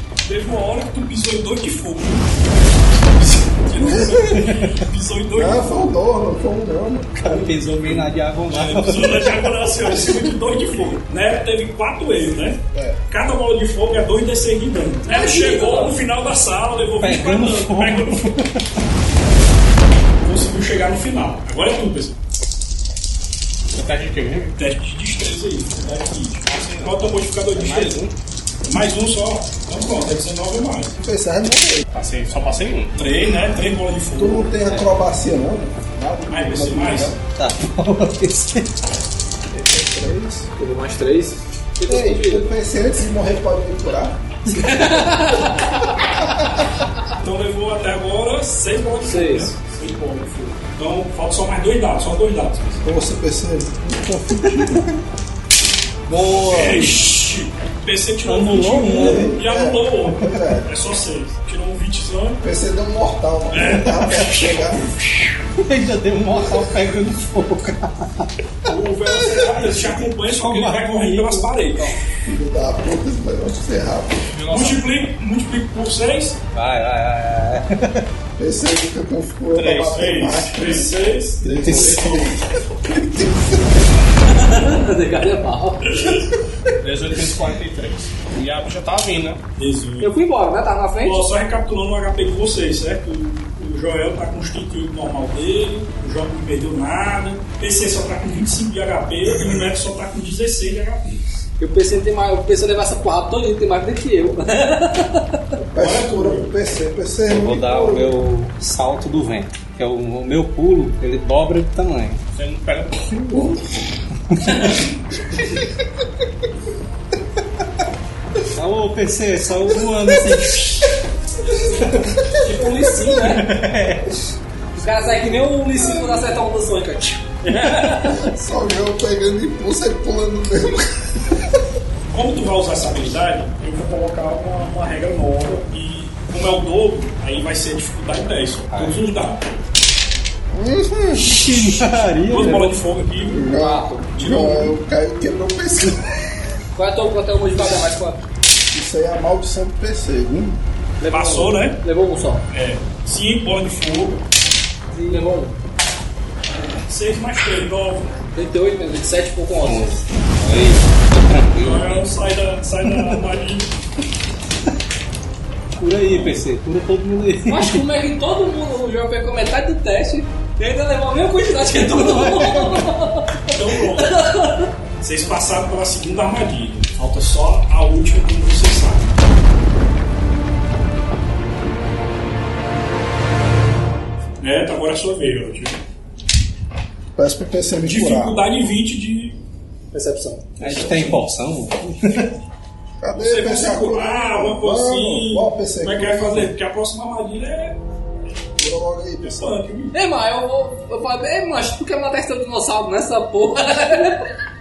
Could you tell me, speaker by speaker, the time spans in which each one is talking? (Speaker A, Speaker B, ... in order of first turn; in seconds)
Speaker A: 0.2-5.8, 7.6-18.4, 20.2-22.2, 24.6-28.0, 28.6-31.0, 33.0-34.5, 36.3-37.2, 47.2-52.8, 56.4-62.4, 63.5-65.4, 68.6-72.1, 74.5-76.4, 79.8-82.3, 89.6-90.1, 91.0-101.2, 105.8-106.5, 132.1-139.4, 142.2-143.5, 144.2-144.7, 151.1-151.8, 152.5-154.2, 156.8-158.1, 161.6-163.7, 166.1-166.4, 173.5-174.2, 175.0-179.1, 184.4-185.8, 187.8-189.4, 190.6-191.2, 193.1-197.8, 199.2-199.9
Speaker B: 4.4-4.7, 7.2-9.7, 17.0-18.6, 37.4-38.7, 44.6-44.9, 58.2-59.4, 65.6-68.3, 70.3-71.9, 76.5-78.0, 81.6-82.2, 107.3-112.2, 118.5-120.9, 121.8-122.1, 123.1-124.2, 138.7-139.0, 141.1-142.8, 159.6-162.1, 165.8-167.8, 171.9-172.9, 190.6-192.3
Speaker C: 5.3-7.5, 30.9-31.9, 34.2-37.2, 39.5-40.5, 41.9-44.2, 52.8-55.0, 56.1-56.9, 58.9-60.7, 62.4-64.9, 72.2-74.3, 78.4-83.9, 105.7-108.1, 120.1-120.3, 128.1-131.4, 140.5-141.4, 143.3-146.1, 148.7-150.6, 187.2-188.4, 193.0-196.5, 198.6-199.5
Speaker D: 15.1-15.8, 40.6-42.5, 44.5-45.9, 49.0-49.5, 84.3-86.2, 90.0-91.2, 101.6-105.4, 122.4-123.5, 124.8-128.2, 143.5-144.1, 146.8-148.2, 151.0-152.4, 154.9-155.6, 158.3-160.0, 167.5-174.7, 189.9-190.5, 199.9-204.3
Speaker E: 23.7-24.6, 26.4-28.1, 31.9-33.1, 74.3-74.8, 79.5-80.0, 86.8-89.4, 112.3-113.5